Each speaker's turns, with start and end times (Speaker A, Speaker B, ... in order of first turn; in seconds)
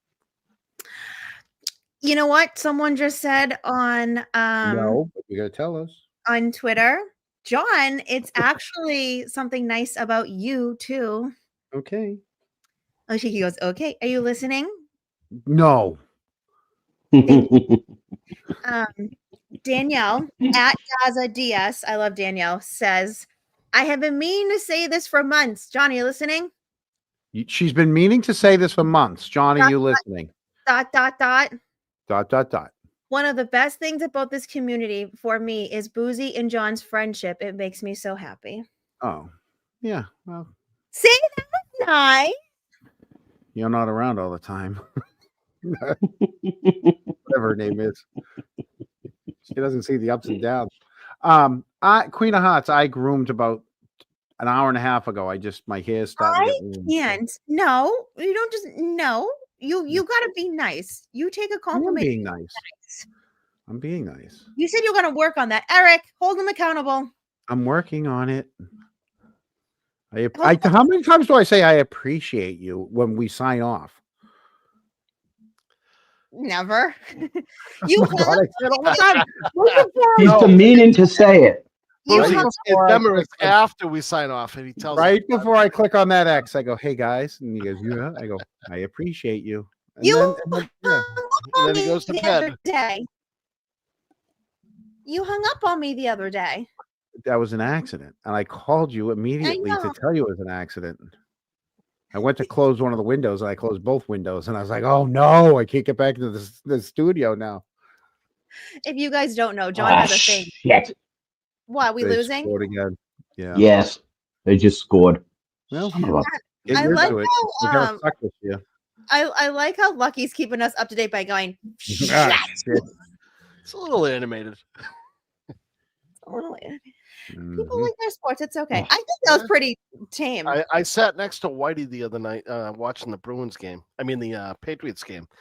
Speaker A: 2.0-5.0, 6.3-11.3, 13.1-14.7, 17.2-17.6, 18.6-26.5, 29.6-30.0, 30.6-31.6, 33.1-38.6, 40.9-42.3, 56.2-63.0, 64.5-67.1, 70.3-70.8, 76.3-80.7, 82.0-82.5, 90.0-93.0, 95.1-96.7, 99.4-99.9, 108.8-110.5, 111.7-112.5, 116.2-118.0, 119.1-122.8, 126.2-126.8, 127.5-130.6
Speaker B: 4.6-6.0, 11.7-12.2, 15.5-16.0, 27.3-30.3, 32.1-32.7, 39.0-39.3, 39.8-40.5, 43.5-44.8, 45.6-46.0, 47.2-48.0, 49.5-50.7, 51.2-53.6, 54.4-57.2, 61.7-62.6, 63.7-64.4, 67.5-68.5, 70.1-74.0, 77.9-79.0, 80.2-80.7, 82.1-83.5, 84.9-91.1, 97.2-101.1, 102.1-107.6, 112.0-113.6, 115.7-116.1, 116.7-118.6, 121.9-122.9, 127.3-127.9
Speaker C: 17.1-17.8, 46.2-46.9, 80.2-81.6, 109.8-110.9, 113.5-115.2, 115.9-116.2
Speaker D: 82.1-85.6, 91.5-92.6, 123.7-124.6, 130.4-135.3